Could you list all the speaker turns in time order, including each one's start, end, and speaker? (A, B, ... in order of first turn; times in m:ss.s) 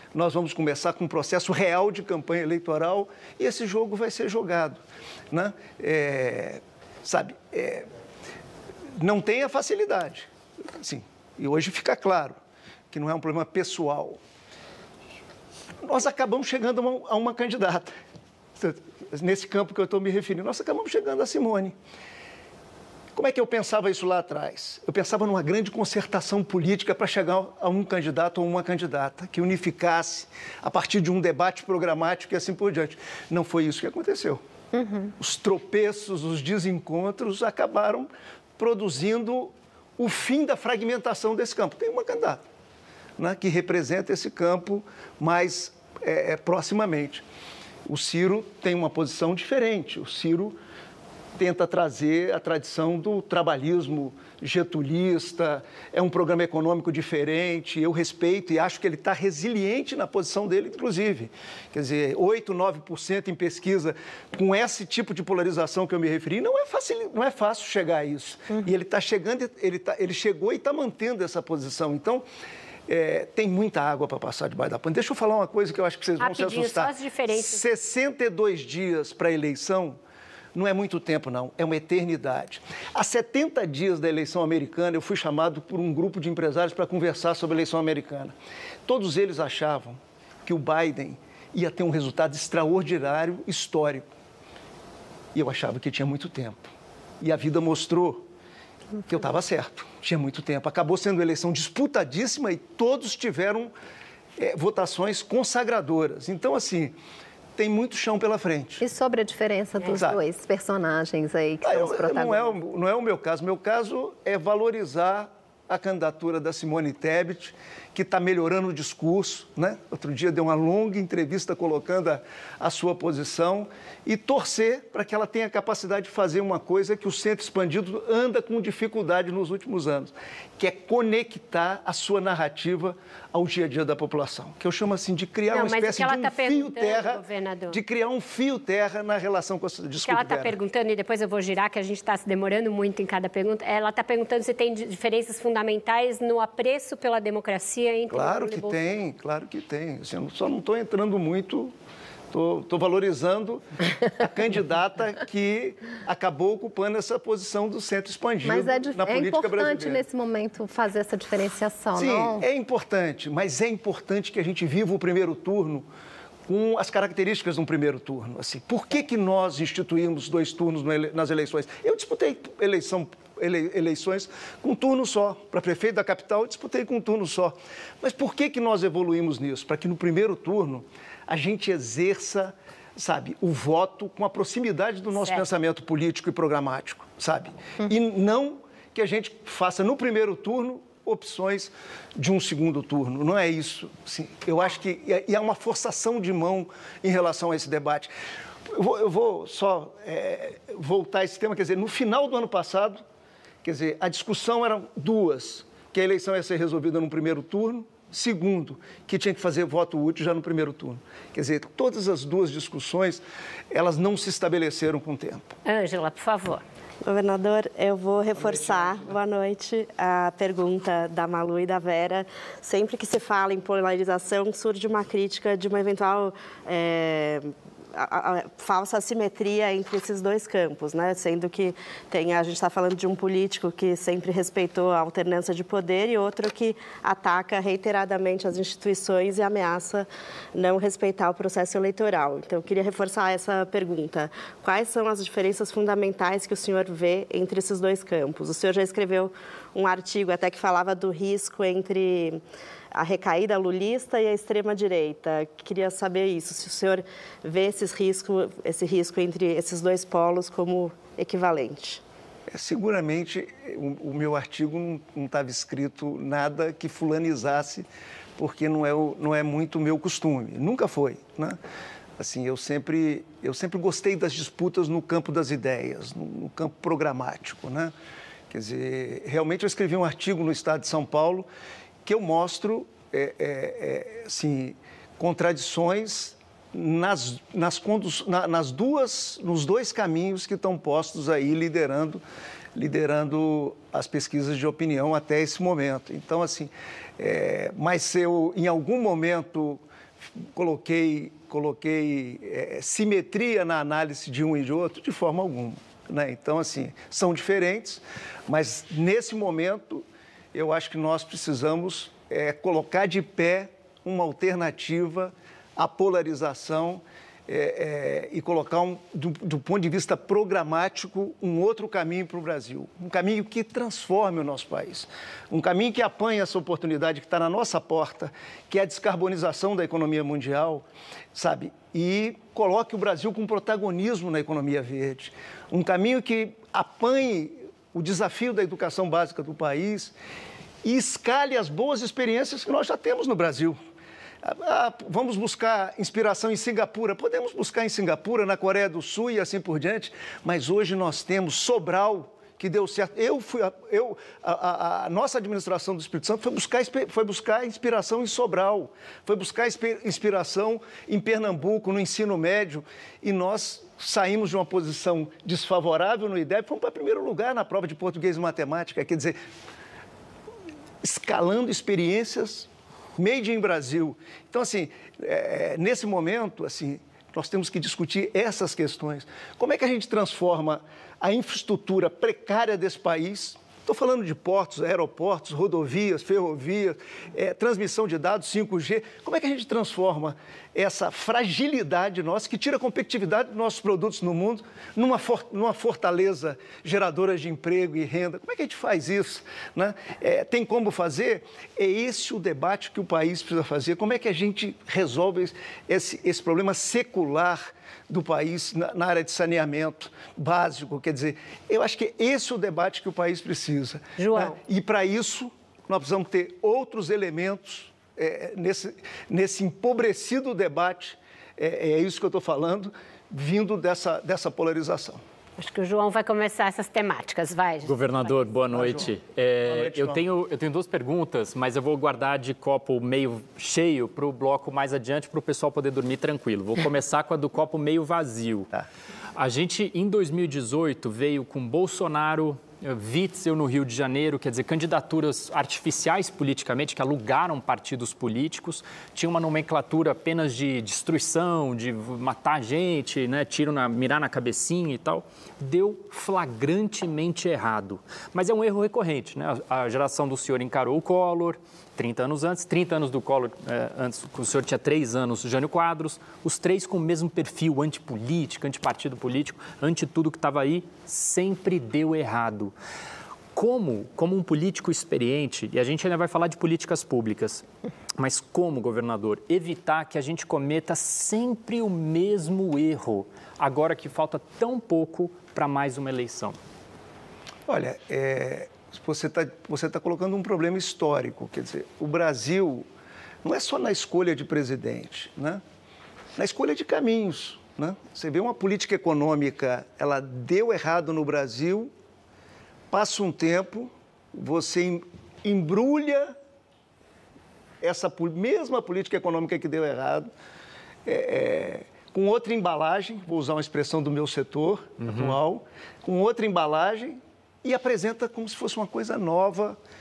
0:00.1-0:04.8 A
0:05.3-0:07.9 A
0:09.0-0:10.3 A
0:10.8-0:12.4 A
0:12.9-0:14.2 A
0:15.8-0:17.9 A
0:18.6-0:21.7 A
0:23.1-0:34.4 A
0:34.7-0:35.1 B
0:35.2-0:42.4 A
0:43.2-0:47.2 A
0:47.8-0:50.6 A
0:51.4-1:12.2 A
1:12.9-1:20.0 A
1:16.2-1:17.6 C
1:20.5-1:28.3 A
1:28.9-1:34.1 A
1:35.3-1:36.7 A
1:37.2-1:38.2 A
1:39.1-1:43.7 A
1:44.4-1:46.9 A
1:47.6-1:48.8 A
1:48.8-1:52.5 B
1:49.9-1:50.2 A
1:51.6-2:20.6 A
2:15.5-2:17.8 C
2:20.0-2:28.8 C
2:28.1-2:31.7 A
2:32.3-2:40.0 A
2:38.4-2:42.4 B
2:41.9-2:45.8 A
2:46.5-3:18.1 A
3:05.2-3:05.4 C
3:18.7-3:23.0 A
3:23.6-3:35.5 A
3:35.6-3:36.6 C
3:37.0-4:12.4 D
3:38.3-3:39.1 A
4:12.9-4:22.0 D
4:22.5-4:27.8 A
4:28.4-4:31.6 A
4:32.2-4:37.9 A
4:38.5-4:41.5 A
4:42.0-4:52.2 A
4:52.7-4:59.8 A
5:00.4-5:40.1 A
5:40.8-5:43.8 A
5:44.4-6:09.4 A
6:11.0-7:05.2 A
6:54.2-6:54.6 C
7:05.6-7:08.4 C
7:07.8-7:18.7 E
7:08.7-7:09.1 A
7:09.6-7:10.2 A
7:19.4-7:52.7 E
7:53.5-7:57.6 E
7:58.2-8:06.6 E
8:07.7-8:12.9 A
8:13.4-8:15.6 A
8:16.4-8:21.9 A
8:22.9-8:26.3 A
8:27.8-8:30.3 A
8:31.0-8:39.8 A
8:35.0-8:35.4 E